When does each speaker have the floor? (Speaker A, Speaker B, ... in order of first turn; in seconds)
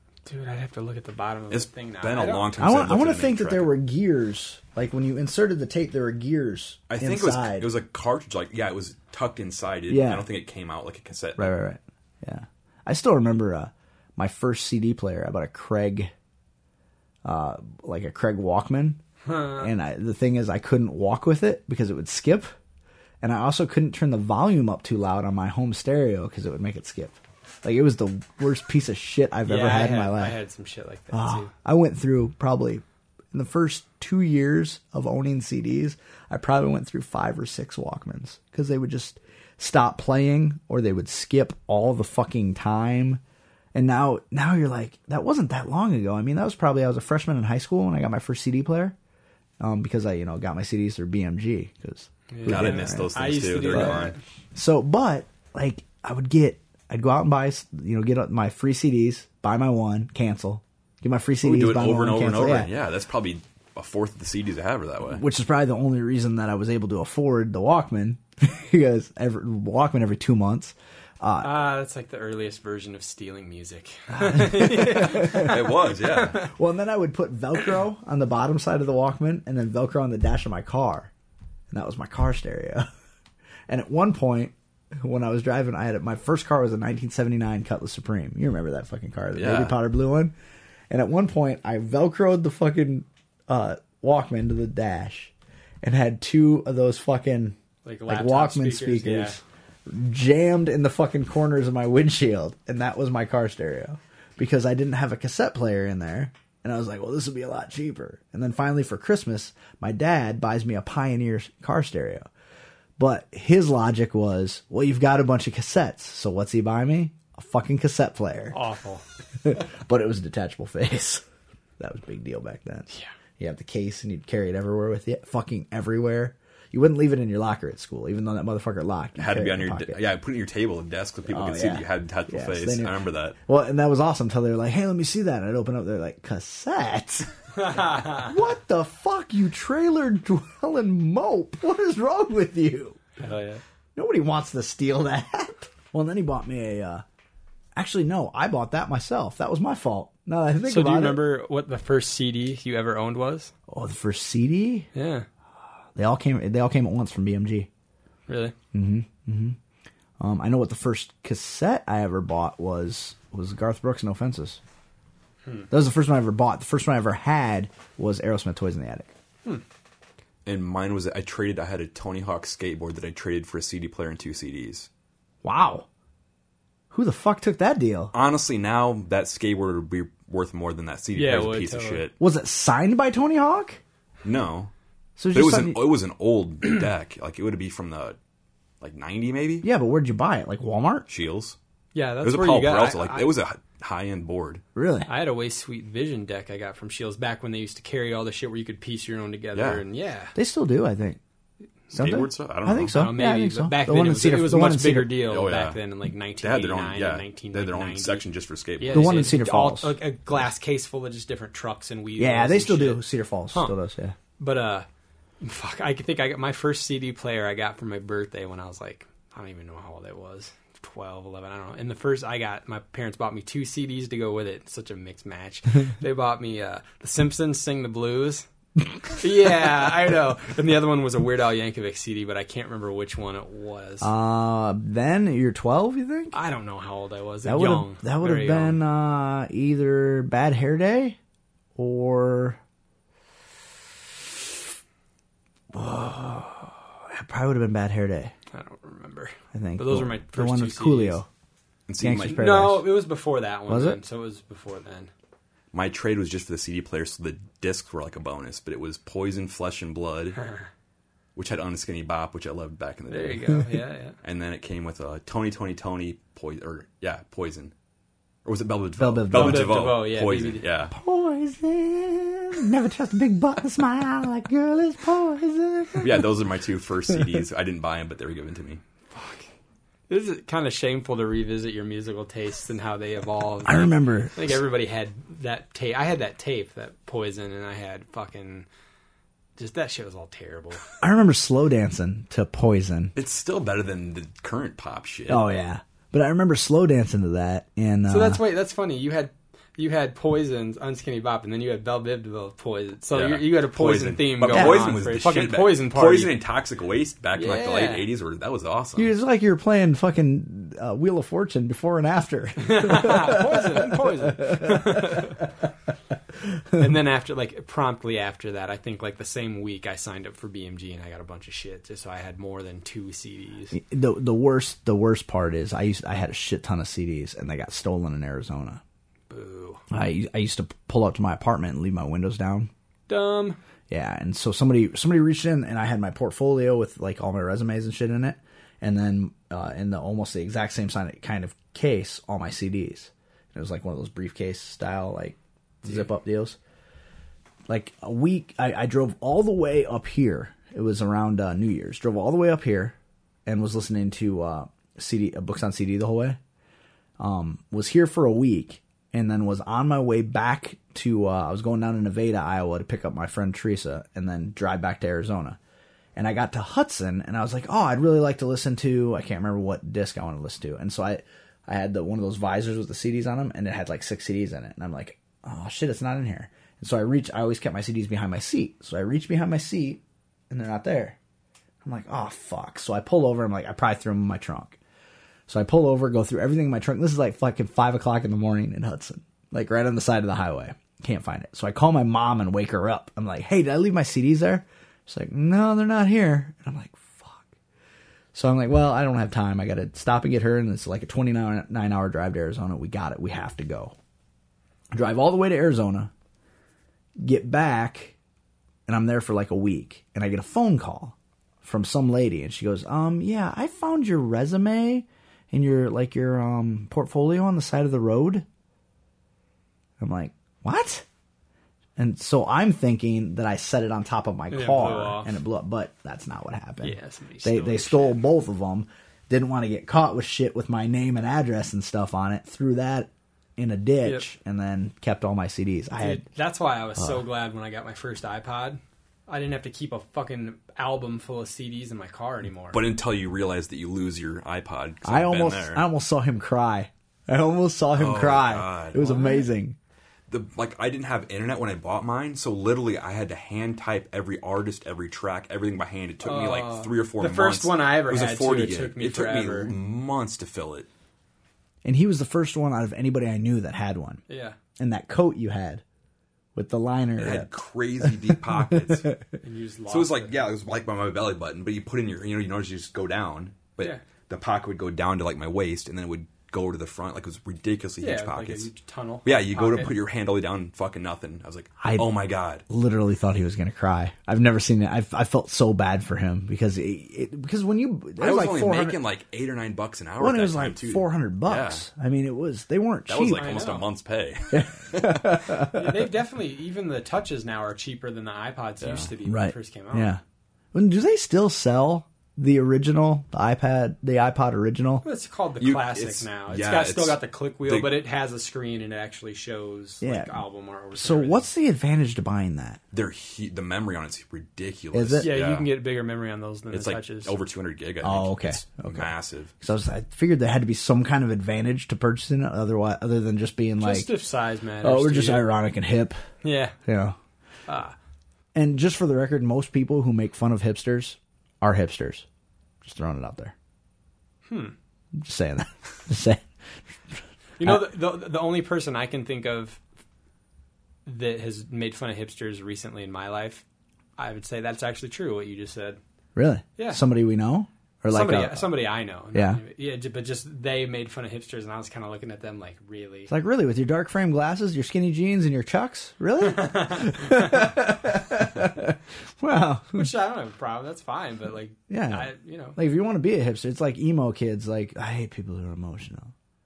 Speaker A: 0.3-2.5, 19.3-19.7, 29.4-31.5, 52.3-54.2, 71.4-76.4, 97.8-99.4, 118.5-119.0, 137.6-138.3, 143.2-143.6, 150.7-153.5, 154.9-155.3, 158.3-158.5, 181.2-182.0, 191.9-193.3, 195.1-200.3, 202.9-208.2, 208.8-213.7, 214.4-214.9, 215.4-228.4, 229.1-234.1, 236.3-238.8, 248.5-251.2, 252.2-255.1, 260.4-260.7, 263.1-264.1, 269.3-270.6, 279.1-279.4, 280.1-288.7, 289.6-290.8, 298.1-306.4, 307.4-308.1, 312.6-315.4, 316.8-323.8, 329.3-329.8, 333.1-333.6, 424.5-425.3, 426.8-428.2, 435.9-442.8, 449.0-449.4, 456.2-459.7, 464.3-464.6, 469.4-470.3, 478.0-479.9, 493.4-493.9, 495.7-500.1, 505.0-511.5, 515.2-517.4, 523.8-525.5, 526.4-526.8, 527.7-527.9, 534.5-534.7, 537.6-539.8, 541.1-543.6, 544.2-546.0, 546.8-547.0, 548.1-553.3, 556.4-557.7, 559.9-562.8
Speaker B: 1.5-3.7, 6.9-11.6, 52.5-54.1, 61.4-65.2, 75.2-76.4, 89.3-89.7, 129.2-133.4, 170.4-174.9, 178.1-182.2, 184.2-184.7, 185.3-188.2, 188.8-189.7, 191.1-191.6, 192.2-194.6, 199.6-199.8, 201.9-203.0, 205.3-205.8, 206.4-209.3, 251.9-252.5, 255.7-260.4, 261.4-263.6, 264.2-267.7, 268.4-270.9, 276.0-278.8, 293.1-295.4, 303.1-309.1, 442.7-445.8, 447.9-449.1, 450.3-460.9, 467.2-469.1, 469.9-478.7, 479.2-482.6, 488.2-491.9, 493.1-495.2, 498.8-499.1, 505.6-507.9, 512.9-515.7, 516.7-519.5
Speaker C: 2.6-7.7, 9.9-10.3, 11.4-16.1, 17.2-22.5, 23.2-30.4, 31.1-43.2, 43.7-49.0, 49.6-53.1, 53.7-54.0, 54.5-62.7, 65.1-71.5, 74.1-75.7, 76.3-81.1, 81.7-82.9, 83.7-90.3, 90.9-112.3, 113.0-118.6, 119.4-121.2, 121.8-130.0, 131.3-143.0, 143.9-147.0, 147.8-151.2, 153.7-154.9, 155.9-157.7, 158.7-159.6, 160.2-164.6, 165.7-169.1, 175.4-175.9, 176.9-178.1, 182.2-183.8, 185.2-185.8, 189.6-191.1, 194.7-195.1, 200.3-201.2, 201.9-205.2, 208.9-209.9, 212.2-214.2, 234.0-236.4, 237.4-241.2, 241.8-242.6, 245.7-248.3, 249.5-251.3, 252.0-252.9, 253.7-254.0, 269.0-269.9, 270.9-276.4, 283.6-284.4, 291.0-293.1, 295.3-298.4, 304.5-305.0, 308.9-315.4, 323.7-328.8, 329.9-332.7, 333.9-346.6, 347.7-352.9, 353.4-356.4, 357.2-365.6, 366.1-381.2, 381.8-384.8, 385.5-397.5, 398.3-403.9, 404.9-406.1, 407.2-408.1, 408.9-418.4, 420.0-421.1, 422.0-436.3, 437.0-437.2, 445.1-449.8, 461.8-464.2, 464.8-465.8, 466.6-467.5, 468.0-469.2, 481.8-482.1, 482.7-489.0, 490.2-493.7, 494.5-495.9, 499.2-500.2, 500.7-505.0, 510.0-510.4, 510.9-512.8, 514.9-515.3, 518.0-524.1, 524.8-526.2, 526.9-527.1, 528.5-532.3, 532.8-533.5, 535.2-536.5, 537.1-537.8, 546.4-548.7, 549.3-549.6, 553.3-560.1, 561.9-566.3